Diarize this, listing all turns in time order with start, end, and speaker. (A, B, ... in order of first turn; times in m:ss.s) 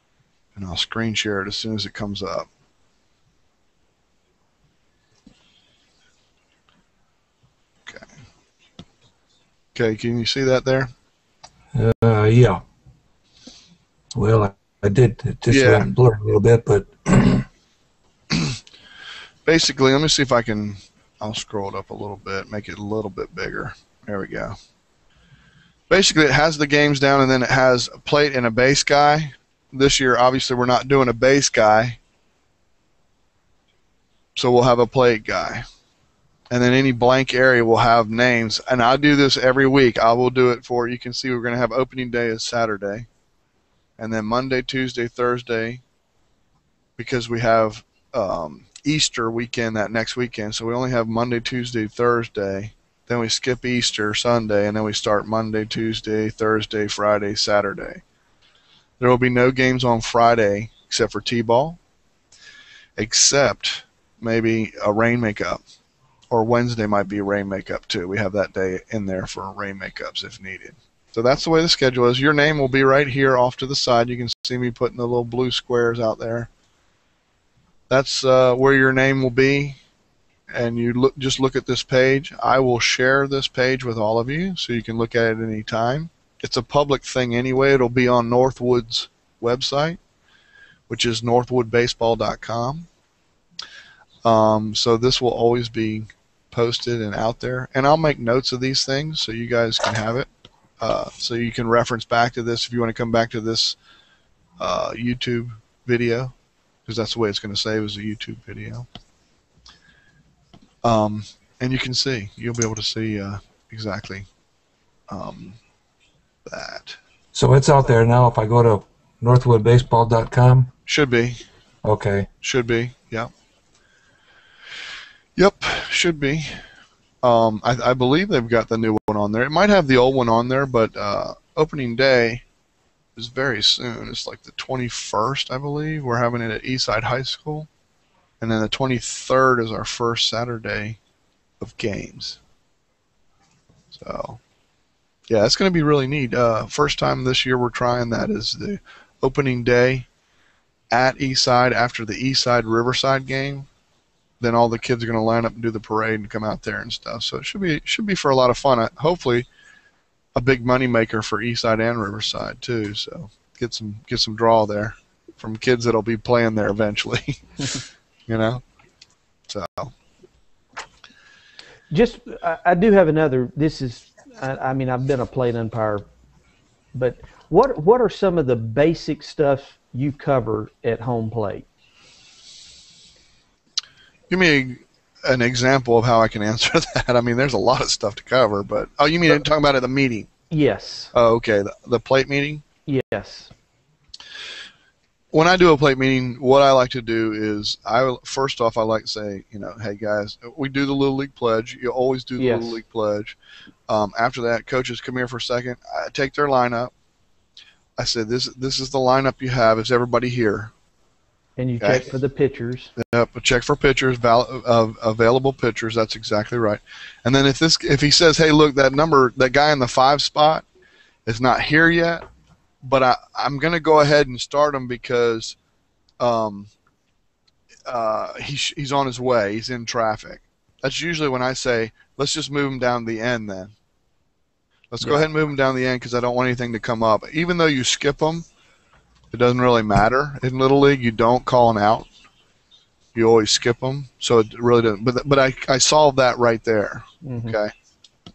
0:00.5-0:02.5 A
0:09.7-0:10.9 A
0:11.7-0:12.6 B
0:14.1-0:17.4 B
0:15.5-0:15.9 A
0:18.3-0:18.6 A
0:19.4-0:24.6 A
0:25.9-0:32.0 A
0:34.4-0:35.6 A
0:36.5-0:43.1 A
0:44.0-0:45.8 A
0:47.0-0:58.0 A
0:59.0-1:01.8 A
1:03.0-1:05.6 A
1:06.3-1:16.5 A
1:17.9-1:19.8 A
1:20.5-1:30.0 A
1:30.9-1:32.9 A
1:34.2-1:40.3 A
1:40.8-1:43.8 A
1:44.6-1:46.3 A
1:46.8-1:48.9 A
1:50.8-1:54.3 A
1:55.1-1:55.6 A
1:56.4-1:57.0 A
1:57.3-2:00.7 B
2:00.9-2:01.4 A
2:01.8-2:02.3 B
2:02.4-2:03.3 A
2:05.4-2:06.6 A
2:07.2-2:12.4 A
2:13.2-2:17.7 A
2:18.4-2:21.0 A
2:21.6-2:22.4 A
2:23.9-2:24.4 A
2:25.3-2:30.1 A
2:30.9-2:33.7 A
2:34.4-2:39.5 A
2:40.3-2:47.4 A
2:48.3-2:48.6 A
2:49.5-2:49.9 A
2:51.9-2:56.0 C
2:56.9-3:01.6 C
3:04.3-3:10.3 A
3:10.5-3:11.1 C
3:11.1-3:12.6 A
3:12.8-3:13.5 C
3:15.3-3:23.4 A
3:22.4-3:22.8 C
3:23.9-3:26.9 A
3:28.0-3:30.7 A
3:31.6-3:32.9 C
3:31.8-3:32.1 A
3:33.0-3:40.6 A
3:41.2-3:42.2 A
3:42.8-3:45.6 A
3:46.2-3:46.7 A
3:47.8-3:53.7 A
3:54.9-3:58.4 A
3:55.0-3:55.3 C
3:59.3-4:02.1 A
4:03.1-4:07.7 A
4:07.2-4:07.6 C